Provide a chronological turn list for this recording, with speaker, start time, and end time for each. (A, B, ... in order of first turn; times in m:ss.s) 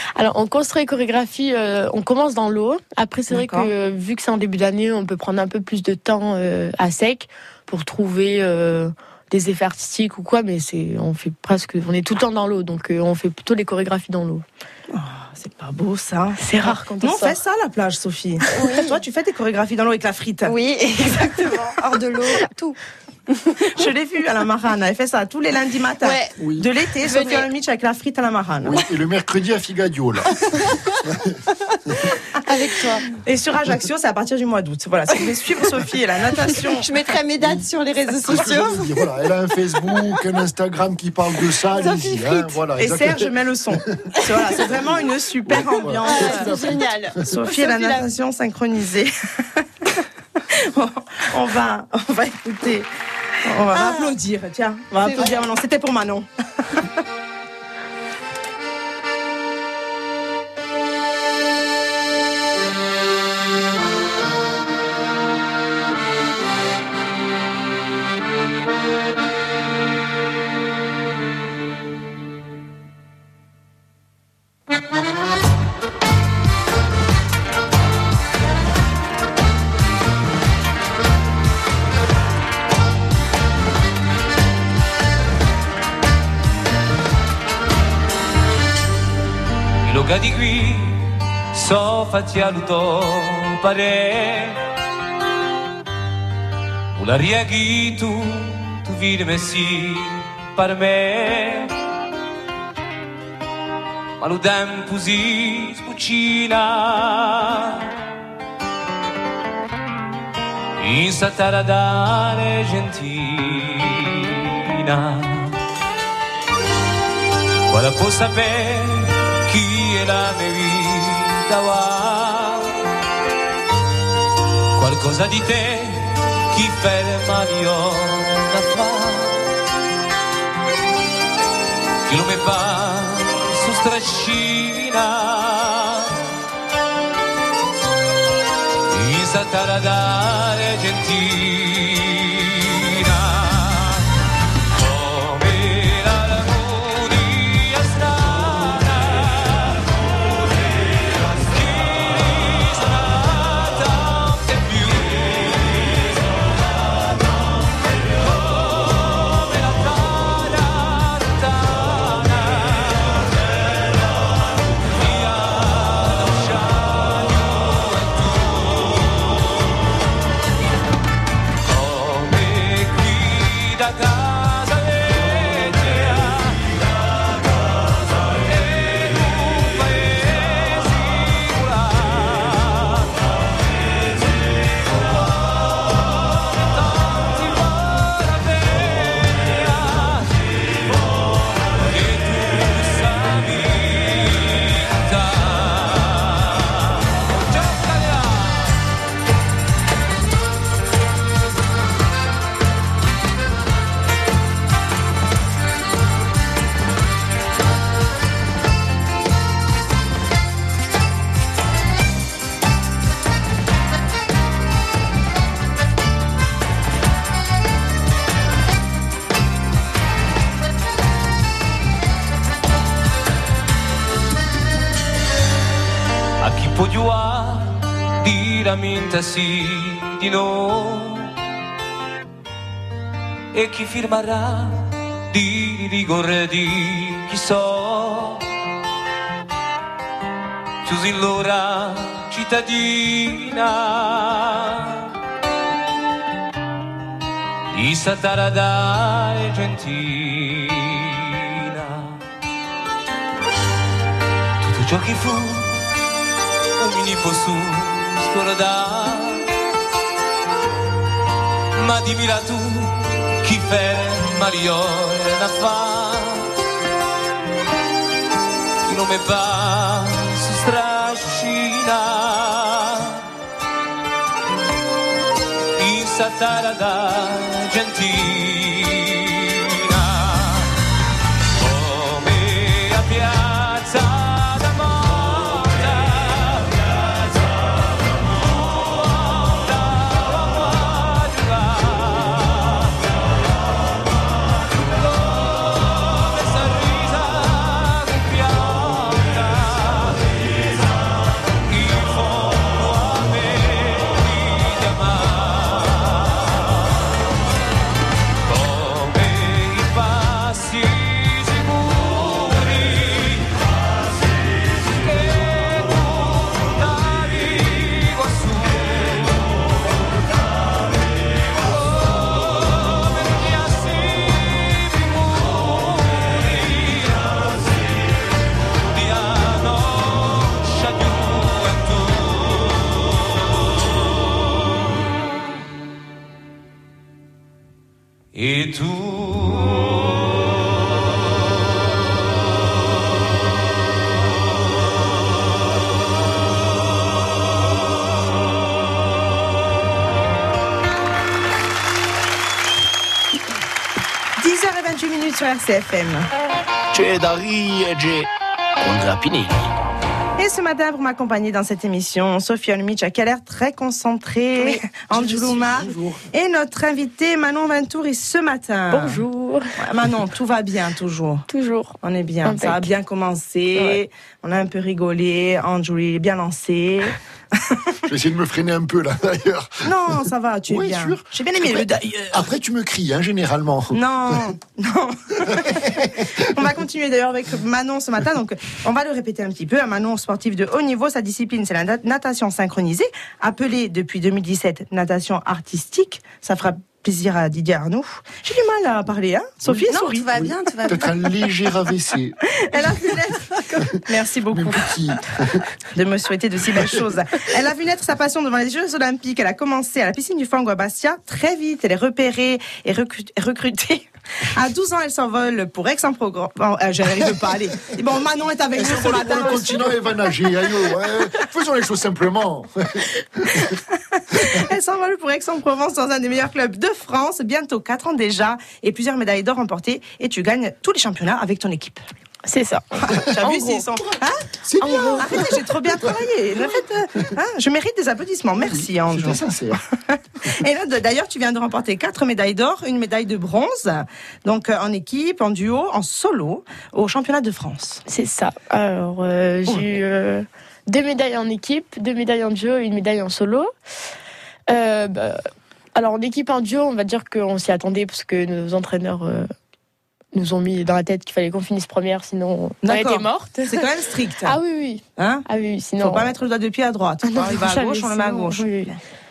0:00.2-0:14.4 A
0:03.3-0:03.7 B
0:14.9-0:20.5 B
0:16.4-0:17.4 A
0:18.5-0:19.0 C
0:20.4-0:22.8 C
0:23.7-0:28.8 B
0:26.0-0:26.4 C
0:26.4-0:26.6 D
0:27.0-0:27.5 C
0:28.6-0:30.4 D
0:30.7-0:31.0 C
0:31.0-0:31.4 D
0:32.4-0:33.1 C
0:33.2-0:36.9 B
0:36.6-0:39.1 C
0:38.2-0:43.3 D
0:39.8-0:40.2 C
0:41.6-0:42.6 C
0:42.8-0:46.6 B
0:44.2-0:44.6 C
0:45.4-0:47.2 D
0:46.0-0:48.1 C
0:47.2-0:49.6 B
0:50.5-0:52.9 B
0:53.4-0:56.8 B
0:53.7-0:54.2 C
0:55.0-0:55.4 C
1:29.8-1:34.6 E
1:36.9-1:41.7 E
1:44.2-1:47.9 E
1:50.8-1:55.6 E
1:57.7-2:02.8 E
2:04.8-2:09.5 E
2:12.0-2:16.2 E
2:18.9-2:24.1 E
2:24.7-2:29.8 E
2:31.1-2:36.2 E
2:38.2-2:43.3 E
2:44.9-2:49.5 E
2:51.6-2:56.8 E
2:58.3-3:03.1 E
3:06.4-3:10.3 E
3:11.8-3:18.8 E
3:46.4-3:51.3 E
3:53.5-3:58.5 E
4:00.8-4:05.1 E
4:07.7-4:12.2 E
4:14.6-4:15.8 E
4:16.8-4:19.5 E
4:21.7-4:26.5 E
4:28.8-4:33.2 E
4:35.8-4:40.8 E
4:41.6-4:46.8 E
4:48.5-4:52.9 E
4:55.3-5:00.4 E
5:01.6-5:06.8 E
5:08.4-5:13.6 E
5:14.8-5:19.6 E
5:21.6-5:27.6 E
5:28.9-5:33.0 E
5:38.3-5:40.6 E
5:54.4-5:56.3 B
5:56.9-5:58.3 F
5:58.8-5:59.5 F
6:00.4-6:09.2 B
6:05.1-6:06.2 D
6:08.9-6:09.6 A
6:09.8-6:11.4 B
6:11.5-6:12.9 A
6:12.0-6:18.0 B
6:18.1-6:20.2 D
6:19.8-6:22.4 B
6:20.7-6:24.4 D
6:23.9-6:25.9 B
6:25.4-6:26.3 D
6:26.5-6:40.3 B
6:39.8-6:41.7 C
6:40.3-6:42.4 D
6:42.6-6:44.9 B
6:44.5-6:45.6 D
6:45.9-7:00.0 B
6:58.7-7:03.7 D
7:04.2-7:12.0 B
7:12.4-7:13.8 A
7:13.0-7:28.0 B
7:14.6-7:16.8 D
7:14.8-7:15.3 A
7:18.6-7:19.8 D
7:28.0-7:33.7 A
7:34.7-7:35.4 A
7:35.9-7:39.5 A
7:40.3-7:43.8 A
7:42.8-7:44.6 B
7:44.4-7:46.3 A
7:45.2-7:45.4 B
7:46.0-7:48.9 B
7:47.2-7:48.9 A